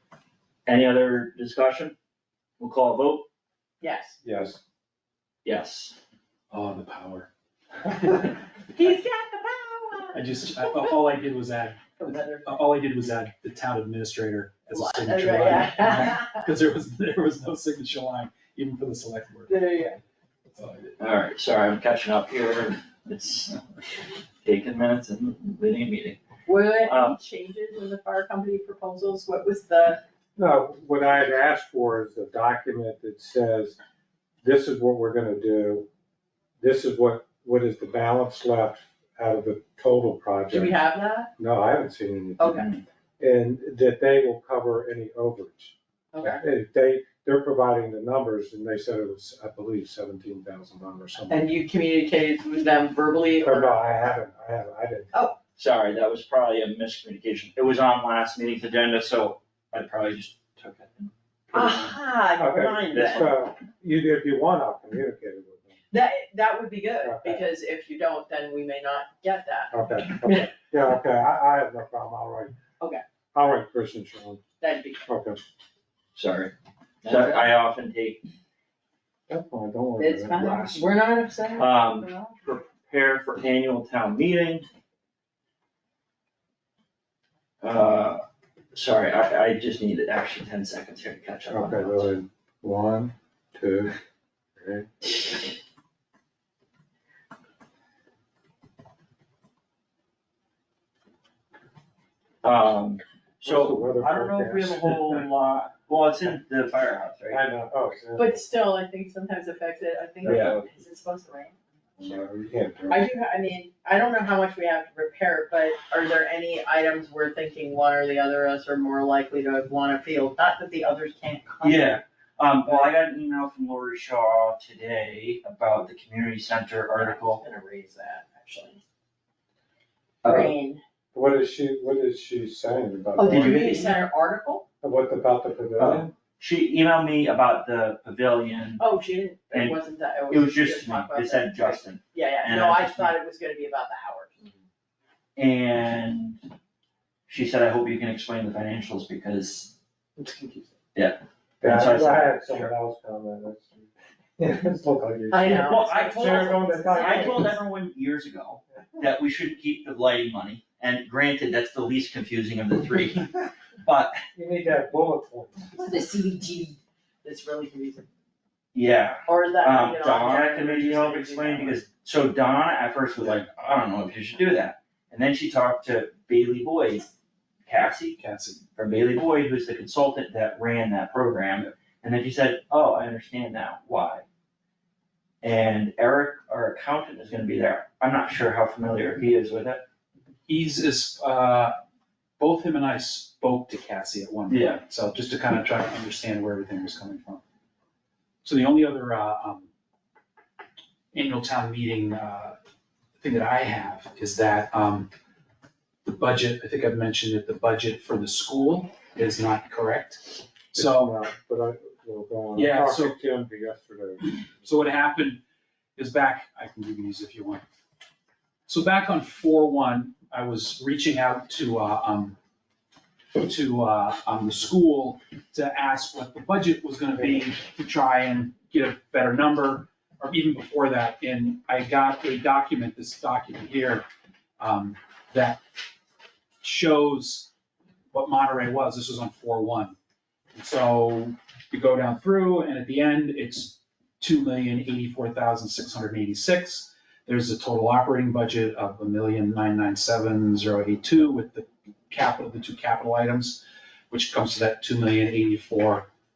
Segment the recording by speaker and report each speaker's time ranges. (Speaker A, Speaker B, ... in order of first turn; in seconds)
Speaker A: 0.7-1.9, 2.6-3.3, 5.5-6.0, 21.0-23.6, 24.4-26.2, 26.8-27.2, 55.6-62.0, 62.9-63.4, 76.2-78.2, 80.4-80.9, 81.6-84.7, 87.6-92.1, 102.4-107.4, 110.2-110.6, 121.6-127.4, 130.2-130.5, 133.3-133.8, 135.8-138.8, 139.5-143.1, 145.4-146.4, 147.3-149.7, 150.9-152.7, 155.5-164.2, 168.7-177.1, 177.7-178.2, 178.8-184.2, 185.4-189.8, 194.5-194.8
Speaker B: 3.8-4.2, 8.7-10.9, 12.0-12.6, 14.7-16.4, 19.5-20.0, 26.5-30.0, 40.5-41.3, 42.4-42.7, 46.1-46.4, 51.3-53.8, 55.1-55.4, 61.5-63.3, 65.9-70.4, 74.6-75.0, 77.0-77.4, 80.0-82.5, 108.2-111.6, 112.9-122.0, 122.7-122.9, 126.9-128.8, 130.3-130.8, 133.2-134.7, 138.8-144.4, 155.3-157.5, 165.8-168.1, 169.3-171.8
Speaker C: 4.2-4.6, 30.4-33.8, 34.4-35.9, 36.6-40.8, 41.4-51.5, 53.4-55.1, 62.4-65.8, 67.0-67.5, 69.7-72.6, 73.3-74.4, 75.1-75.4, 79.3-80.6, 91.5-94.0, 94.6-95.2, 103.4-105.2, 107.3-108.3, 110.2-110.6, 112.0-113.0, 131.1-133.9, 134.8-136.1, 150.2-150.7, 151.6-157.6, 164.3-165.9, 210.7-215.0
Speaker D: 6.5-7.3, 10.1-19.6, 20.6-20.9, 178.2-178.6, 190.5-191.8, 192.4-197.4, 198.4-199.7, 201.1-202.6, 203.2-205.1, 206.1-211.1, 212.6-213.2, 214.2-215.4, 216.0-217.6, 218.7-222.4, 223.4-234.0, 234.6-235.6, 236.6-237.5, 238.1-240.0, 240.5-256.1